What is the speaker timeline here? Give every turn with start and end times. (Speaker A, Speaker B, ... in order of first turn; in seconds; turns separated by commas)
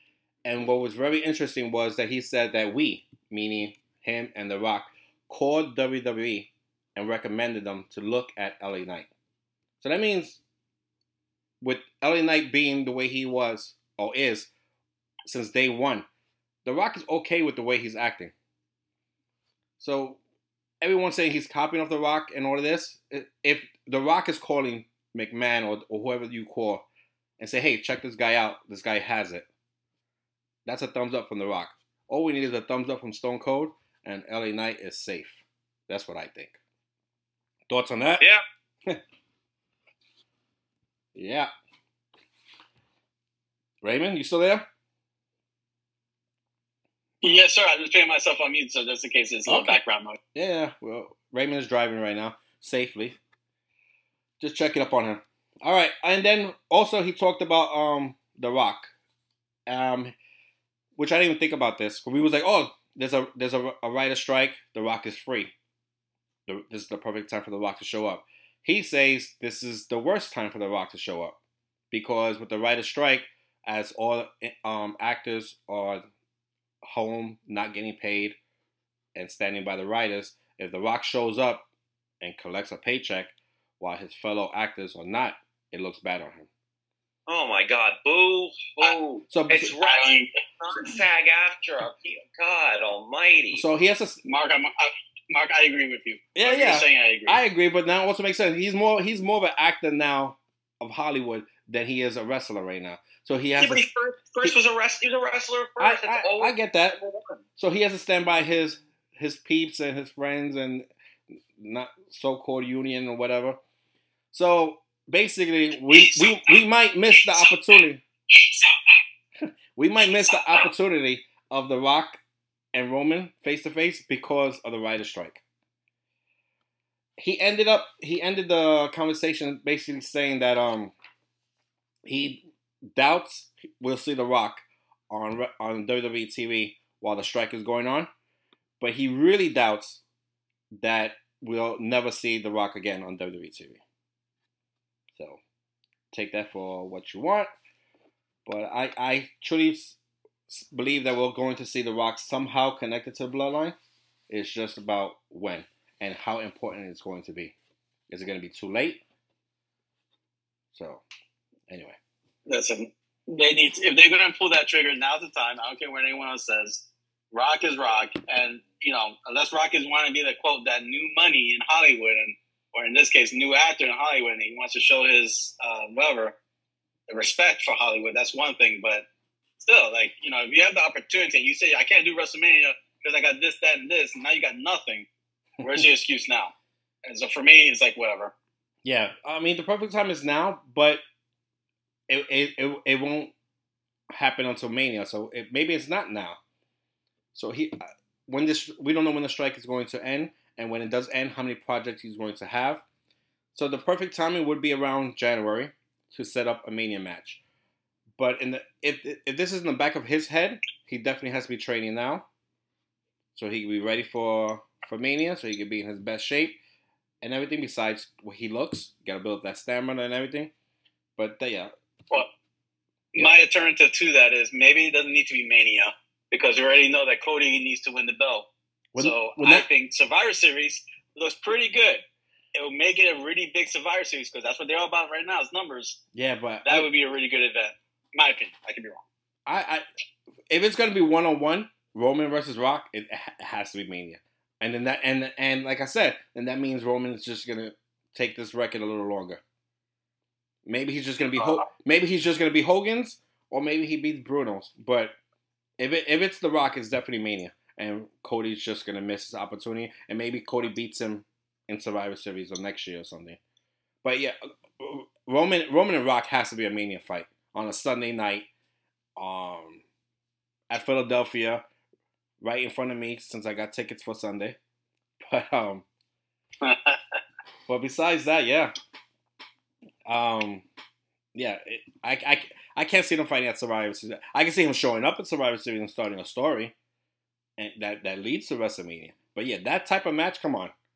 Speaker A: 0.4-9.1, Speaker A: 9.8-10.4, Speaker A: 11.6-14.5, Speaker A: 15.2-16.1, Speaker A: 16.6-18.3, Speaker A: 19.8-20.2, Speaker A: 20.8-26.8, Speaker A: 27.4-29.5, Speaker A: 30.6-36.6, Speaker A: 37.7-38.2, Speaker A: 41.1-41.5, Speaker A: 43.8-44.6, Speaker B: 47.2-50.2, Speaker A: 49.5-49.8, Speaker A: 50.3-53.2, Speaker A: 54.4-58.9, Speaker A: 59.7-60.1, Speaker A: 61.0-65.5, Speaker A: 66.5-71.4, Speaker A: 71.9-76.0, Speaker A: 76.8-78.4, Speaker A: 79.1-81.7, Speaker A: 82.2-86.5, Speaker C: 87.3-93.6, Speaker A: 89.3-89.7, Speaker B: 89.8-90.3, Speaker A: 93.5-94.2, Speaker B: 94.2-97.4, Speaker A: 96.3-103.9, Speaker C: 103.6-107.4, Speaker A: 105.8-107.0, Speaker A: 107.6-110.9, Speaker A: 111.5-113.6, Speaker A: 114.3-118.0, Speaker B: 115.9-116.4, Speaker A: 119.8-122.2, Speaker A: 122.7-125.4, Speaker A: 127.2-130.9, Speaker A: 132.0-138.1, Speaker A: 138.8-140.0, Speaker A: 140.8-143.8, Speaker A: 145.1-145.4, Speaker A: 146.1-147.5, Speaker A: 148.4-153.8, Speaker A: 154.3-157.5, Speaker A: 158.1-159.0, Speaker A: 160.7-161.0, Speaker A: 161.7-162.0, Speaker B: 162.5-176.3, Speaker B: 177.1-179.0, Speaker B: 179.6-185.1, Speaker B: 185.6-186.5, Speaker A: 185.6-185.8, Speaker B: 187.0-188.3, Speaker A: 188.8-191.0, Speaker A: 192.1-193.3, Speaker A: 194.1-196.4, Speaker A: 197.3-202.8, Speaker A: 203.5-207.4, Speaker A: 208.2-212.2, Speaker A: 213.3-216.6, Speaker A: 217.2-220.5, Speaker A: 221.2-221.7, Speaker B: 223.1-232.0, Speaker A: 228.9-229.7, Speaker B: 232.5-236.0, Speaker A: 236.1-236.9, Speaker B: 236.6-239.0, Speaker A: 239.4-239.8, Speaker A: 240.5-249.4, Speaker A: 250.6-255.1, Speaker C: 251.4-251.6, Speaker A: 255.8-263.4, Speaker A: 264.0-268.5, Speaker A: 269.1-269.8, Speaker A: 270.7-271.6, Speaker A: 272.4-274.6, Speaker A: 275.2-275.9, Speaker B: 276.6-277.0, Speaker A: 277.7-278.7, Speaker A: 280.1-280.6, Speaker A: 281.3-286.7, Speaker A: 287.6-290.7